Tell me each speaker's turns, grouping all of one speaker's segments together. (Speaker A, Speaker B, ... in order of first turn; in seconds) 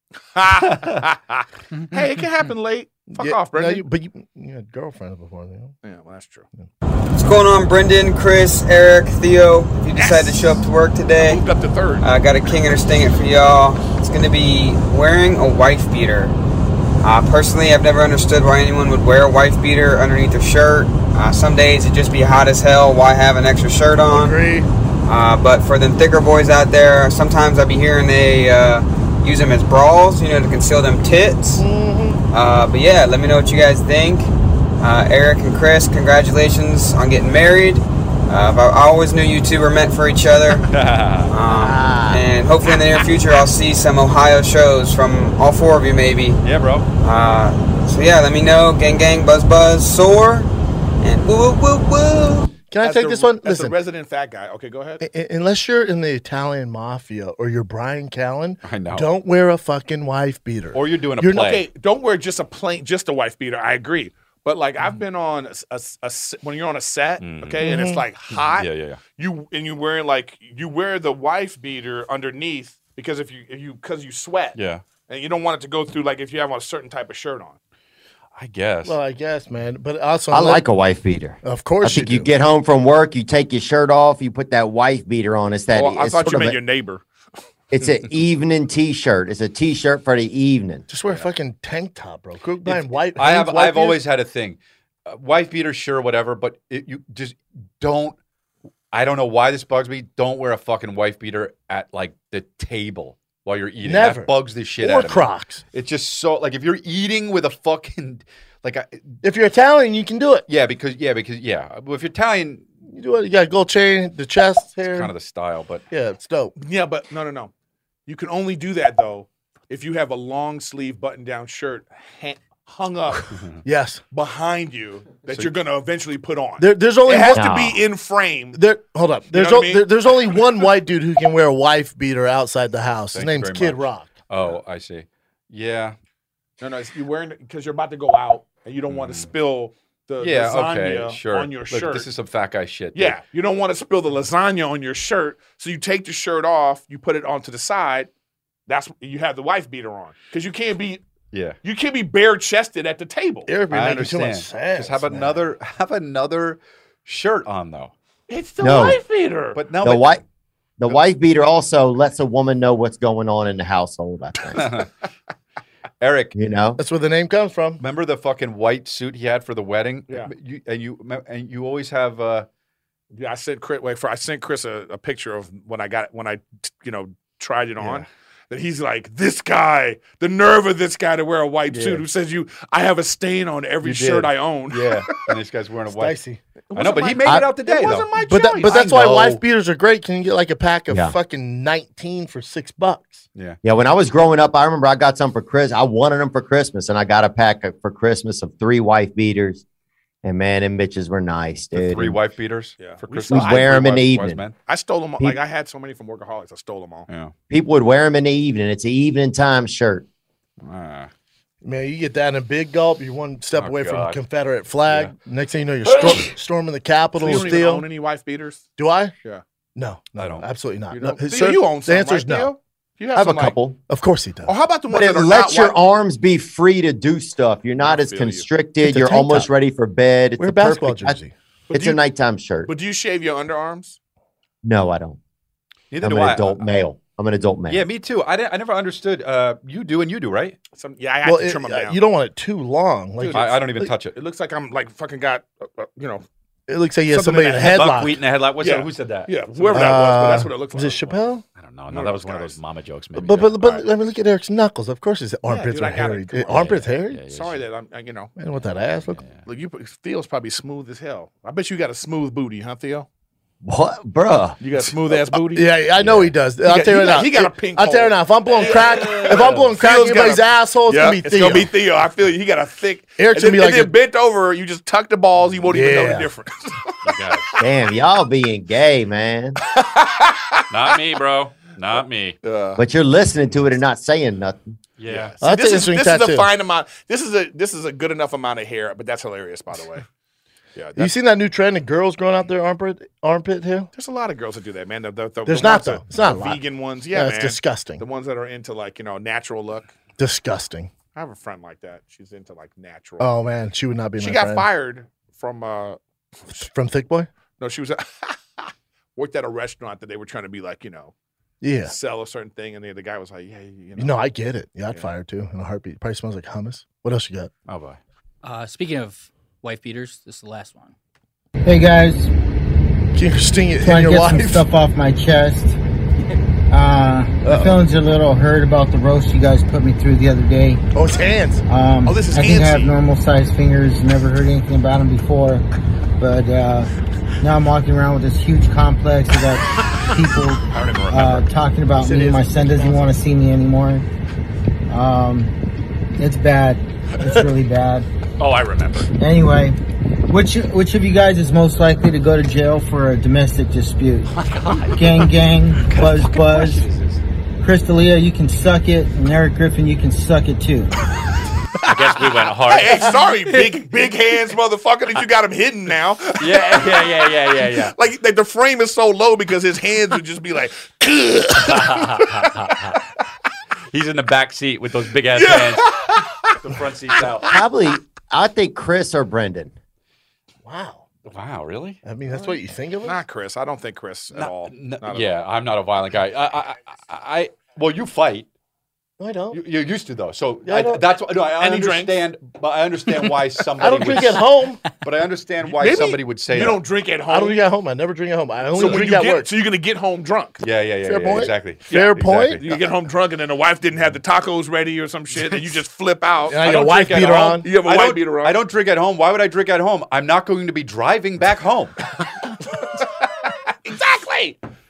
Speaker A: 0.3-3.8, 5.8-6.5, 9.9-10.6, 11.2-12.1, 52.8-55.0, 61.4-77.6, 85.7-87.0, 116.6-117.5, 118.1-123.3, 124.1-128.6, 129.3-129.9, 136.6-142.1, 142.9-148.1, 148.7-151.0, 151.6-153.5, 158.3-159.6, 173.1-185.0, 186.7-188.9, 202.8-204.0, 204.7-207.1, 217.2-218.7, 220.9-223.6, 224.4-225.7, 227.8-228.4, 231.7-232.0, 232.7-234.0, 240.7-242.0, 243.2-246.2, 247.1-247.9, 248.6-251.2, 251.9-252.6, 255.4-256.8, 257.3-258.3, 259.4-263.1, 264.6-265.7, 266.6-276.9, 279.7-280.6, 282.4-282.8, 285.1-290.0, 290.8-291.1, 293.9-299.9, 301.1-303.3, 304.2-306.0, 307.6-311.1, 311.9-314.2, 332.1-332.9, 362.6-372.5, 375.3-376.6, 383.0-385.3, 391.6-392.2, 395.6-397.6, 398.7-400.6, 401.9-408.6, 413.8-414.6
Speaker B: 3.1-5.8, 24.1-24.7, 31.6-32.2, 41.6-42.2, 52.7-53.8, 55.0-61.5, 67.6-68.0, 78.8-80.6, 81.4-82.3, 90.9-94.0, 103.8-105.6, 109.2-110.5, 112.9-115.1, 115.9-116.5, 123.6-124.0, 126.6-127.6, 128.5-134.1, 153.5-155.4, 166.8-167.8, 185.9-186.4, 188.2-193.2, 211.6-217.9, 218.8-219.1, 219.8-222.5, 223.9-224.5, 228.8-229.5, 230.4-231.3, 241.2-243.9, 246.7-248.1, 249.7-251.4, 253.2-257.2, 258.4-259.2, 265.4-271.7, 273.2-273.9, 275.7-276.3, 285.4-286.5, 291.0-293.9, 295.4-298.0, 300.2-300.9, 303.2-304.7, 306.6-307.3, 311.6-311.9, 314.0-317.5, 323.1-324.6, 327.4-327.7, 330.9-331.6, 342.0-343.1, 380.6-381.0, 382.0-383.2, 389.2-389.6, 390.6-391.0, 393.8-394.8, 397.3-399.5, 401.0-402.6, 406.5-407.7
Speaker C: 7.1-11.4, 12.0-16.4, 17.0-24.4, 25.1-31.6, 32.3-40.6, 41.3-46.4, 47.0-50.5, 51.0-52.5
Speaker D: 40.7-41.3, 46.4-46.9, 58.6-59.1, 60.7-61.6, 67.2-67.6, 68.3-69.0, 74.5-74.8, 78.3-79.0, 92.6-98.2, 98.9-109.1, 110.5-112.6, 114.8-115.8, 133.1-135.9, 138.9-139.3, 140.2-143.2, 151.3-151.6, 153.7-157.9, 159.5-160.2, 164.6-164.8, 166.0-166.3, 167.8-172.5, 177.8-178.0, 181.7-182.0, 183.8-186.2, 186.7-189.4, 201.7-204.5, 210.6-211.1, 213.6-214.2, 214.8-215.1, 220.2-220.5, 235.9-236.8, 237.7-240.6, 243.3-244.2, 247.7-249.9, 251.6-253.8, 256.5-257.6, 259.1-259.4, 268.6-269.6, 277.0-277.4, 280.7-282.4, 285.0-285.3, 317.7-318.0, 340.7-341.4, 348.4-349.1, 354.3-357.2, 361.8-363.1, 366.4-367.9, 371.6-372.9, 373.9-375.9, 376.5-377.5, 381.2-382.0, 384.3-388.5, 389.5-394.4, 395.0-396.8, 398.8-399.1, 400.6-402.8, 406.6-411.9
Speaker E: 41.6-42.2, 80.3-86.6, 87.7-90.8, 127.3-127.8, 158.6-159.0, 159.8-160.2, 160.8-164.7, 166.3-166.8, 190.9-191.1, 193.6-199.6, 200.2-202.2, 203.3-204.4, 207.5-210.0, 223.1-223.8, 224.9-231.2, 231.7-232.7, 234.6-235.2, 236.0-237.8, 263.6-264.6, 277.6-279.6, 282.8-284.7, 377.5-379.7
Speaker F: 318.4-320.9
Speaker G: 321.6-322.3, 323.8-325.7, 326.7-330.8, 331.7-335.6, 336.2-336.9, 337.4-344.0, 344.9-345.5, 346.2-348.1, 349.2-349.8, 350.3-354.3, 354.9-356.8, 357.6-360.9